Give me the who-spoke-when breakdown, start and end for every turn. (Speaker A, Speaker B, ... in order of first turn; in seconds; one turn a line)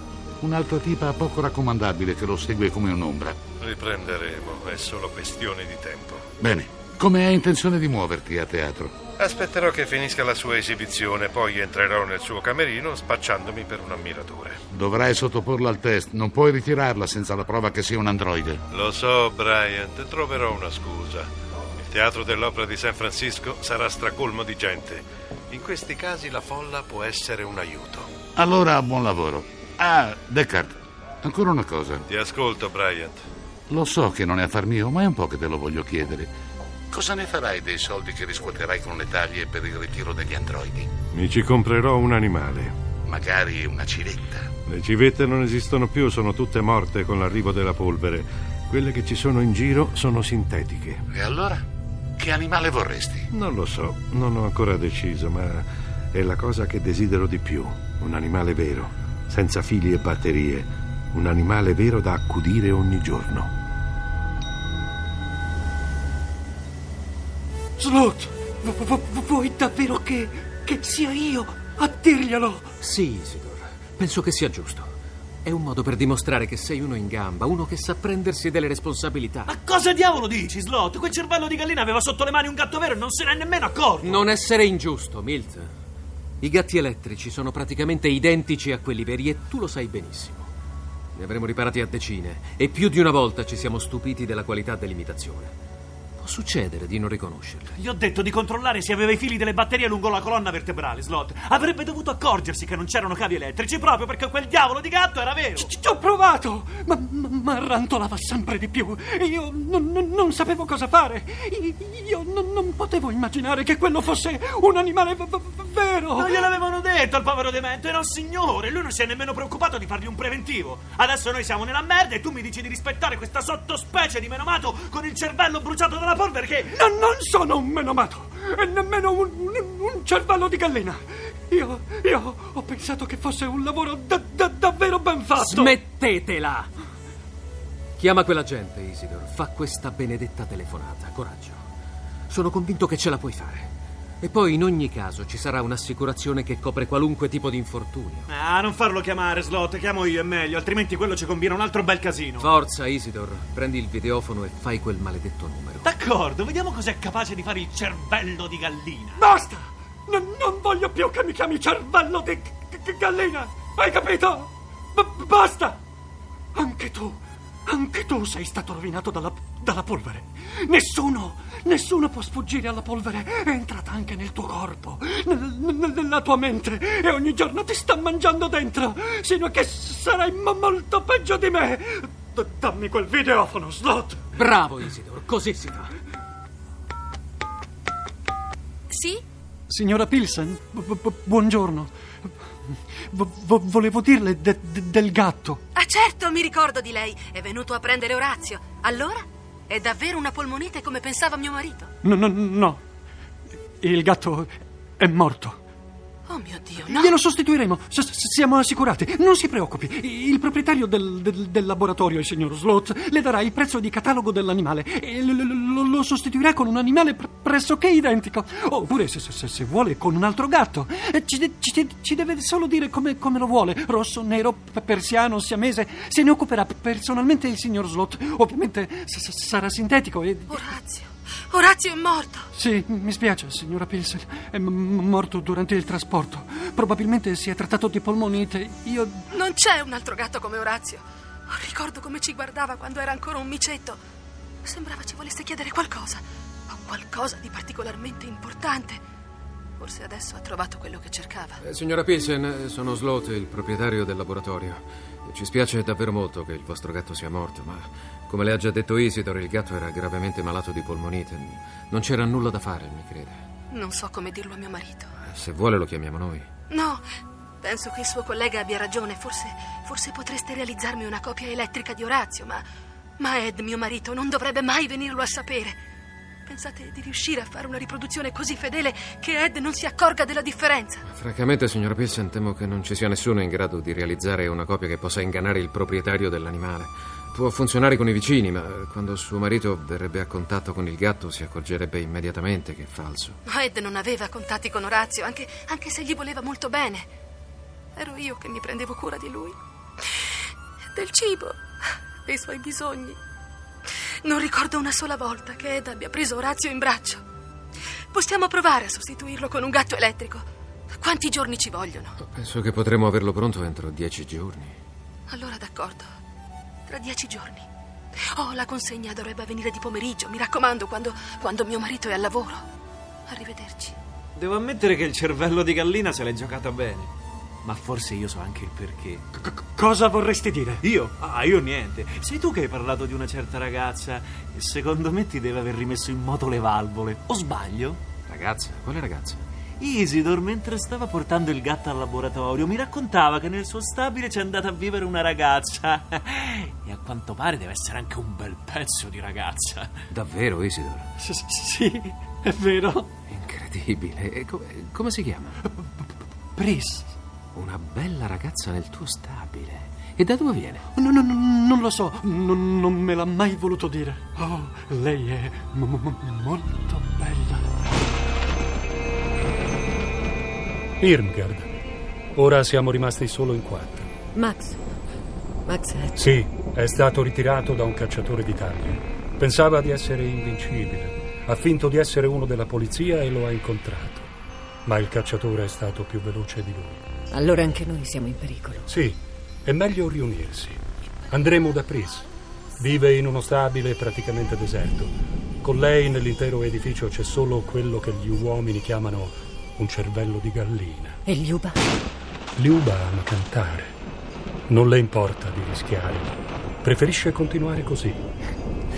Speaker A: 0.4-3.4
Speaker B: 3.6-6.2
Speaker A: 6.4-8.9
Speaker B: 9.2-14.6
Speaker A: 14.7-18.6
Speaker B: 18.7-21.3
Speaker B: 21.8-28.1
Speaker A: 28.4-32.0
Speaker B: 32.1-33.2
Speaker A: 33.7-36.3
Speaker A: 36.9-40.9
Speaker B: 41.1-42.7
Speaker A: 43.0-44.5
Speaker B: 44.6-51.0
Speaker A: 51.1-51.6
Speaker A: 52.2-53.3
Speaker B: 53.3-63.5
Speaker C: 67.8-72.7
Speaker D: 72.8-74.9
Speaker D: 75.4-79.5
Speaker E: 79.5-84.3
Speaker D: 84.0-85.7
Speaker D: 86.4-90.5
Speaker D: 91.1-95.5
Speaker D: 96.2-97.7
Speaker E: 97.8-105.7
Speaker C: 105.6-116.5
Speaker E: 116.2-126.7
Speaker C: 126.7-135.8
Speaker D: 135.3-136.7
Speaker D: 138.0-141.6
Speaker D: 142.3-143.7
Speaker D: 144.2-148.3
Speaker E: 148.3-152.5
Speaker D: 152.4-155.9
Speaker E: 155.8-159.2
Speaker C: 159.2-165.8
Speaker C: 166.5-184.2
Speaker D: 184.4-185.9
Speaker F: 188.9-189.2
Speaker C: 189.7-191.9
Speaker C: 193.1-195.6
Speaker F: 195.7-201.9
Speaker C: 202.0-202.8
Speaker C: 203.8-205.6
Speaker F: 206.3-207.2
Speaker C: 206.8-230.7
Speaker F: 230.5-232.5
Speaker C: 232.5-239.3
Speaker F: 239.3-244.0
Speaker F: 244.6-249.0
Speaker F: 249.8-251.6
Speaker D: 251.6-263.4
Speaker F: 263.7-265.1
Speaker D: 265.2-266.4
Speaker F: 266.7-267.0
Speaker F: 267.6-272.6
Speaker F: 273.2-275.8
Speaker F: 276.5-281.0
Speaker D: 281.1-293.4
Speaker F: 293.4-297.1
Speaker F: 297.9-299.6
Speaker F: 300.9-301.6
Speaker F: 302.2-303.2
Speaker F: 304.2-307.2
Speaker F: 308.1-312.1
Speaker D: 312.3-314.7
Speaker F: 315.3-316.1
Speaker F: 316.9-317.6
Speaker F: 318.4-322.6
Speaker F: 323.3-323.9
Speaker E: 324.4-327.1
Speaker E: 327.6-329.2
Speaker C: 329.3-330.8
Speaker E: 330.8-338.0
Speaker D: 338.3-339.4
Speaker E: 339.8-349.9
Speaker D: 350.1-351.1
Speaker C: 351.2-353.1
Speaker D: 353.3-355.6
Speaker C: 356.6-357.1
Speaker D: 357.5-360.8
Speaker C: 360.9-367.6
Speaker G: 371.0-371.7
Speaker G: 372.3-374.1
Speaker H: 374.4-374.8
Speaker H: 375.7-376.1
Speaker G: 376.1-384.3
Speaker G: 384.9-387.0
Speaker H: 387.3-388.8
Speaker G: 388.9-392.3
Speaker G: 392.8-401.2
Speaker H: 401.3-401.7
Speaker G: 402.6-403.9
Speaker G: 404.7-408.2